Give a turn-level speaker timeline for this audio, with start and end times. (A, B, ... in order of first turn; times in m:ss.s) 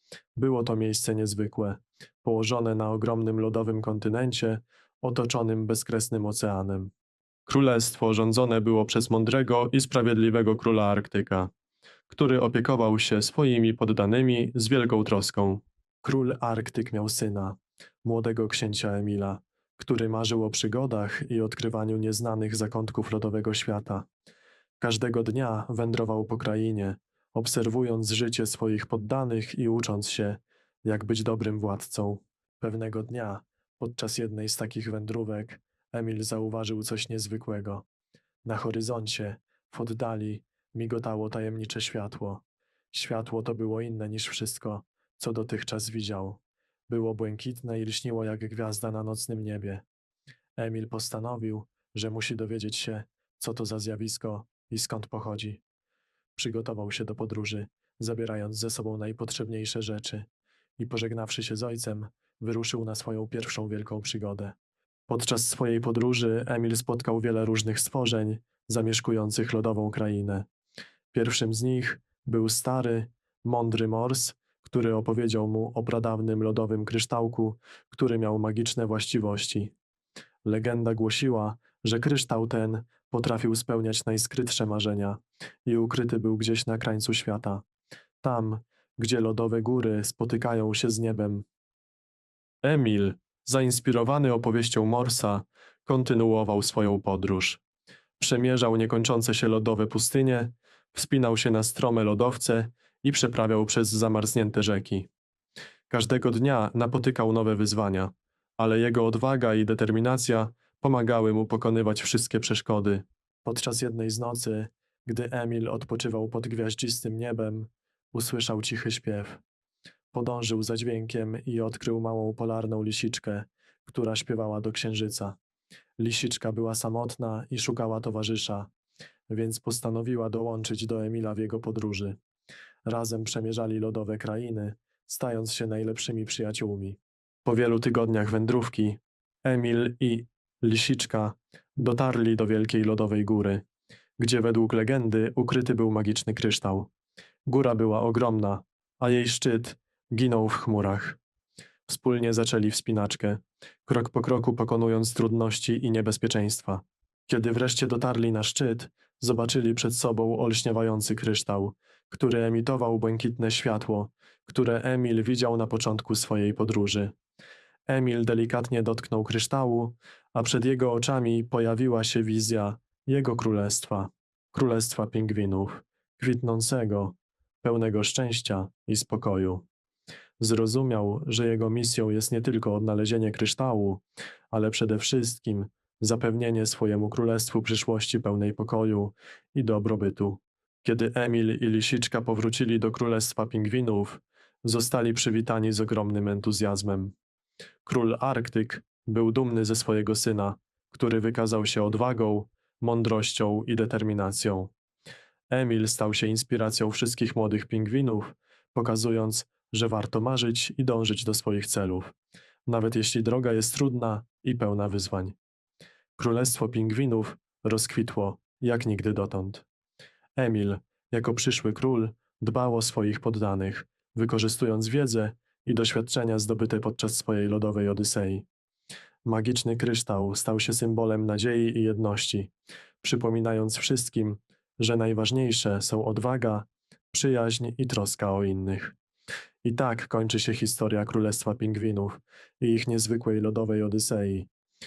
0:00.3-0:06.9 A
0:07.4-0:11.5 A
0:12.1-0:24.1 A
0:24.8-0:37.8 A
0:38.4-0:49.8 A
0:50.6-0:55.6 A
0:56.4-1:00.3 A
1:00.8-1:04.6 A
1:05.1-1:10.5 A
1:11.1-1:19.7 A
1:20.4-1:27.6 A
1:28.2-1:31.5 A
1:32.6-1:37.6 A
1:38.2-1:45.1 A
1:45.9-1:59.4 A
2:00.1-2:05.4 A
2:06.0-2:08.7 A
2:09.3-2:12.2 A
2:12.8-2:23.6 A
2:24.2-2:26.9 A
2:27.4-2:31.2 A
2:31.9-2:47.1 A
2:47.9-2:59.6 A
3:00.4-3:17.2 A
3:17.8-3:24.7 A
3:25.5-3:32.1 A
3:32.6-3:35.4 A
3:36.2-3:39.6 A
3:40.4-3:48.5 A
3:49.2-3:59.0 A
3:59.6-4:04.5 A